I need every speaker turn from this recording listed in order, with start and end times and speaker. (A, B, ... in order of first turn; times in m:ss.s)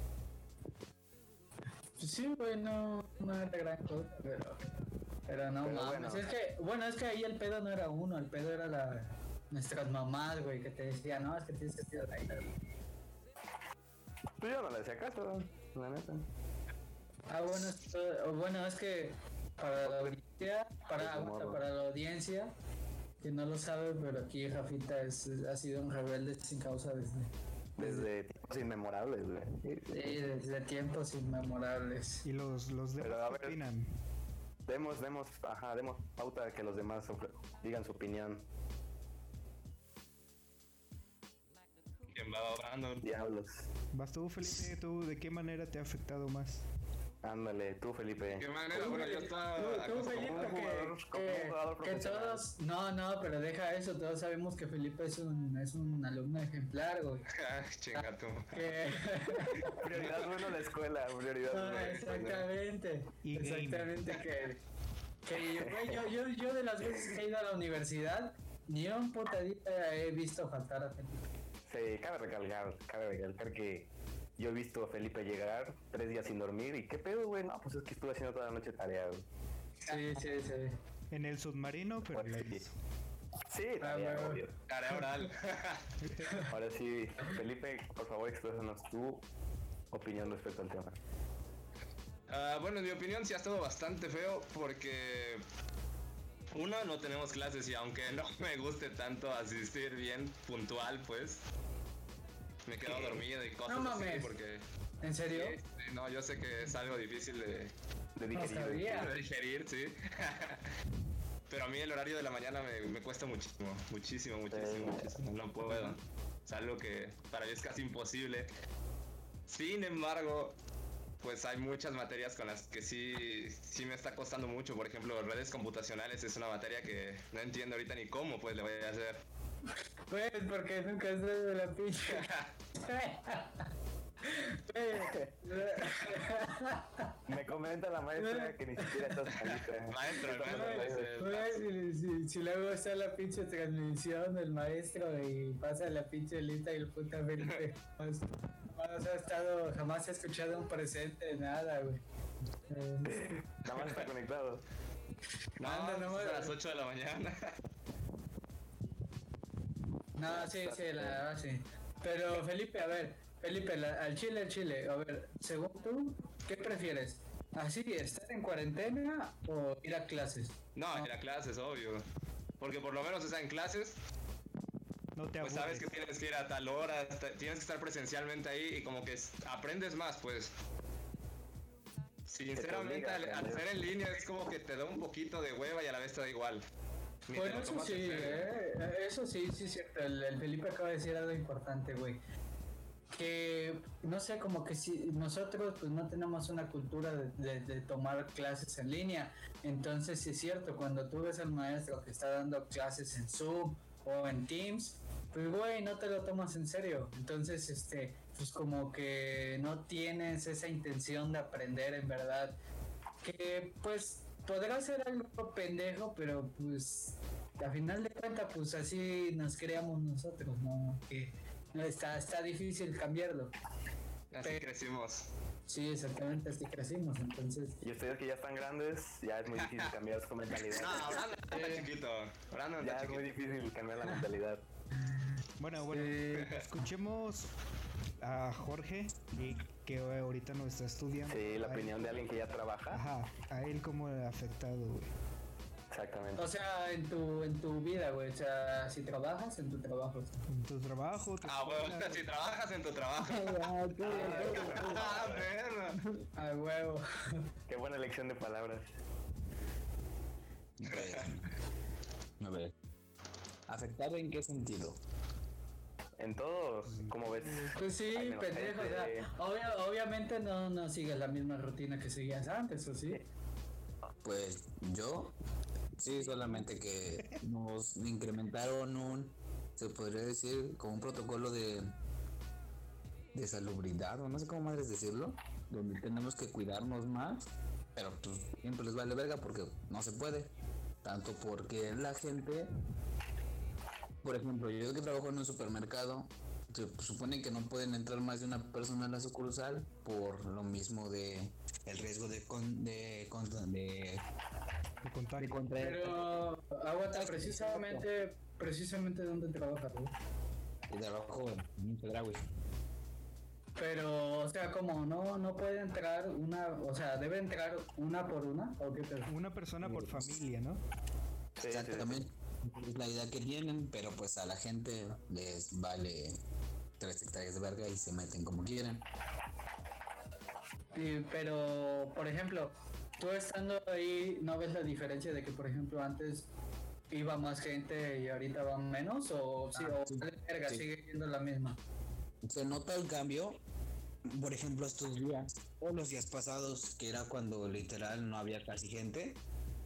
0:02.0-0:04.7 A
0:05.3-0:12.5 A
0:05.6-0:06.2 B
0:14.4-0:16.2 B
0:17.3-0:22.5 A
0:21.0-0:21.6 B
0:23.2-0:27.3 A
0:27.8-0:30.2 B
0:29.9-0:32.2 A
0:32.2-0:33.9 C
0:33.0-0:33.6 B
0:34.7-0:38.4 B
0:42.1-0:43.1 D
0:43.0-0:43.6 B
0:43.9-0:46.6 C
0:47.2-0:48.5 B
0:48.3-0:50.5 D
0:48.7-0:57.3 A
0:49.9-0:52.5 B
0:57.3-0:58.8 D
0:57.9-0:59.8 A
0:59.6-1:02.5 B
0:59.9-1:00.3 D
1:01.5-1:04.6 A
1:03.2-1:04.2 C
1:05.2-1:11.2 A
1:05.4-1:06.0 B
1:11.7-1:19.2 B
1:19.9-1:20.8 A
1:21.1-1:22.7 C
1:22.1-1:22.6 B
1:23.5-1:24.6 B
1:23.8-1:24.4 A
1:24.7-1:25.9 D
1:26.0-1:26.4 C
1:26.2-1:26.5 A
1:26.5-1:29.2 B
1:29.9-1:31.0 B
1:32.3-1:35.4 D
1:36.6-1:41.4 D
1:42.7-1:44.6 D
1:43.7-1:44.3 A
1:45.0-1:45.6 A
1:45.3-1:47.7 D
1:48.2-1:49.1 B
1:48.3-1:49.1 A
1:48.9-1:50.7 D
1:51.5-1:58.5 D
1:54.5-1:56.0 B
1:59.5-2:00.5 D
2:01.2-2:09.2 D
2:10.1-2:13.7 A
2:12.1-2:12.5 D
2:14.2-2:17.2 A
2:15.0-2:15.3 B
2:17.3-2:21.2 B
2:18.2-2:19.2 A
2:19.4-2:21.6 D
2:20.5-2:32.0 A
2:32.7-2:33.4 A
2:33.0-2:34.6 B
2:33.7-2:34.1 D
2:35.6-2:36.6 A
2:35.6-2:37.6 D
2:40.2-2:51.1 A
2:40.3-2:41.2 B
2:50.8-2:52.0 D
2:52.6-2:54.0 D
2:55.2-2:55.9 C
2:55.4-3:00.5 D
3:02.3-3:06.6 D
3:02.6-3:03.7 B
3:07.3-3:08.5 D
3:07.3-3:12.2 A
3:13.1-3:32.6 A
3:33.2-3:43.5 A
3:44.3-3:45.3 D
3:45.7-3:47.8 A
3:47.8-3:51.2 B
3:49.6-3:49.9 D
3:50.7-3:53.4 D
3:50.9-3:51.9 A
3:52.8-3:54.6 B
3:55.6-3:57.5 C
3:55.9-3:56.6 A
3:58.2-4:02.2 C
4:01.3-4:03.0 B
4:02.9-4:05.1 C
4:05.9-4:06.5 B
4:06.4-4:10.4 A
4:10.5-4:12.2 C
4:11.4-4:13.7 D
4:13.2-4:15.2 E
4:14.0-4:15.5 B
4:14.0-4:14.9 A
4:14.3-4:16.2 D
4:16.4-4:17.5 A
4:17.7-4:18.9 B
4:20.8-4:21.4 E
4:20.9-4:21.3 D
4:22.4-4:22.7 E
4:23.7-4:25.0 E
4:26.2-4:29.3 B
4:26.9-4:27.8 C
4:27.8-4:33.2 A
4:34.2-4:35.3 E
4:36.0-4:41.9 E
4:36.2-4:36.7 C
4:43.3-4:50.5 E
4:51.0-4:52.7 E
4:54.2-5:04.2 E
5:05.0-5:05.6 C
5:05.4-5:06.4 E
5:05.8-5:10.1 A
5:07.1-5:08.1 E
5:10.9-5:12.4 E
5:13.8-5:19.3 A
5:19.3-5:20.8 C
5:19.8-5:20.3 E
5:21.6-5:22.2 B
5:21.6-5:26.4 E
5:27.0-5:29.0 E
5:30.9-5:36.5 A
5:37.1-5:41.8 A
5:39.8-5:40.8 E
5:42.4-5:43.6 E
5:44.3-5:49.4 E